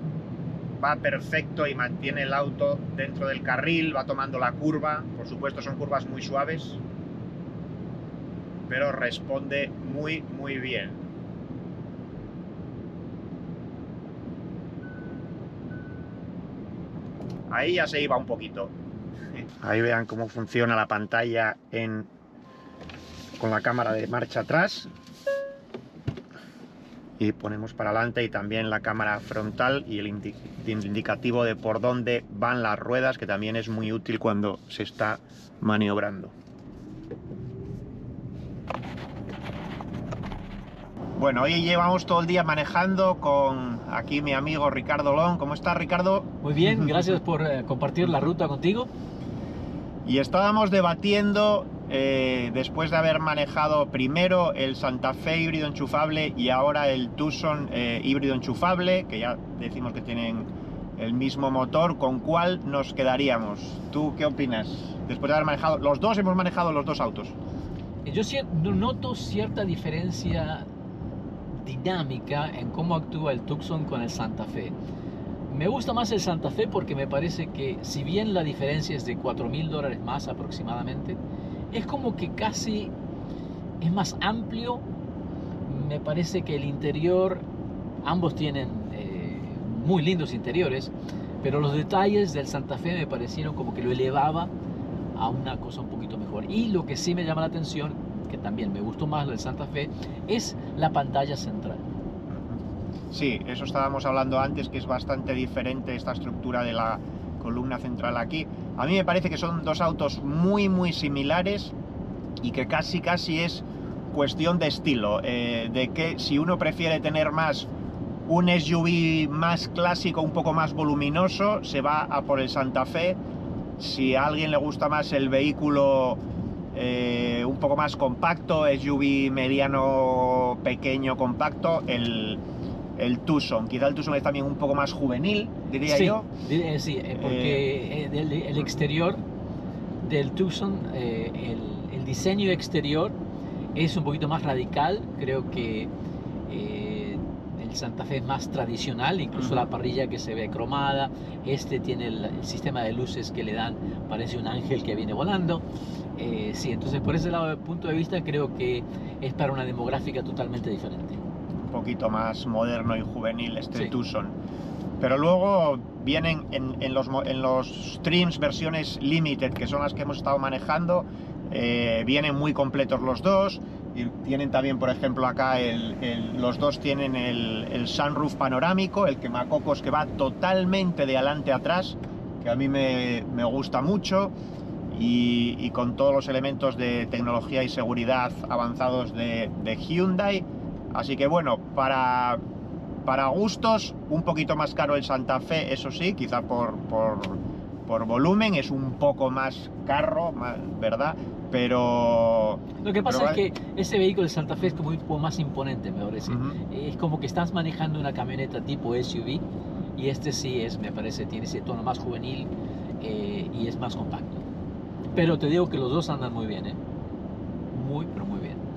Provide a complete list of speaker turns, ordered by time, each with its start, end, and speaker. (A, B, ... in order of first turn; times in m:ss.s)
0:00.8-0:06.8 A
0:08.7-0:11.0 A
0:17.5-0:18.7 A
0:19.6-0:22.1 A
0:23.4-0:24.9 A
0:27.2-0:36.3 A
0:41.2-0:46.3 A
0:46.4-0:48.9 B
0:50.0-1:07.4 A
1:08.0-1:10.7 B
1:11.5-1:14.7 B
1:15.5-1:21.2 B
1:21.7-1:22.9 B
1:23.8-1:24.8 B
1:25.6-1:27.4 B
1:28.0-1:34.5 B
1:35.1-1:41.8 B
1:42.3-1:42.6 A
1:43.1-1:51.7 A
1:52.4-1:57.7 A
1:58.3-2:03.2 A
2:03.8-2:06.2 A
2:06.7-2:12.4 A
2:13.0-2:16.3 A
2:15.9-2:19.2 B
2:17.2-2:17.6 A
2:20.0-2:23.2 B
2:23.7-2:25.9 B
2:26.5-2:35.6 B
2:36.1-2:41.2 B
2:41.7-2:44.4 A
2:45.0-3:04.3 A
3:04.9-3:12.4 A
3:13.0-3:23.4 A
3:22.8-3:29.4 B
3:26.3-3:26.6 A
3:30.0-3:34.4 B
3:35.1-3:36.8 B
3:37.7-3:38.6 B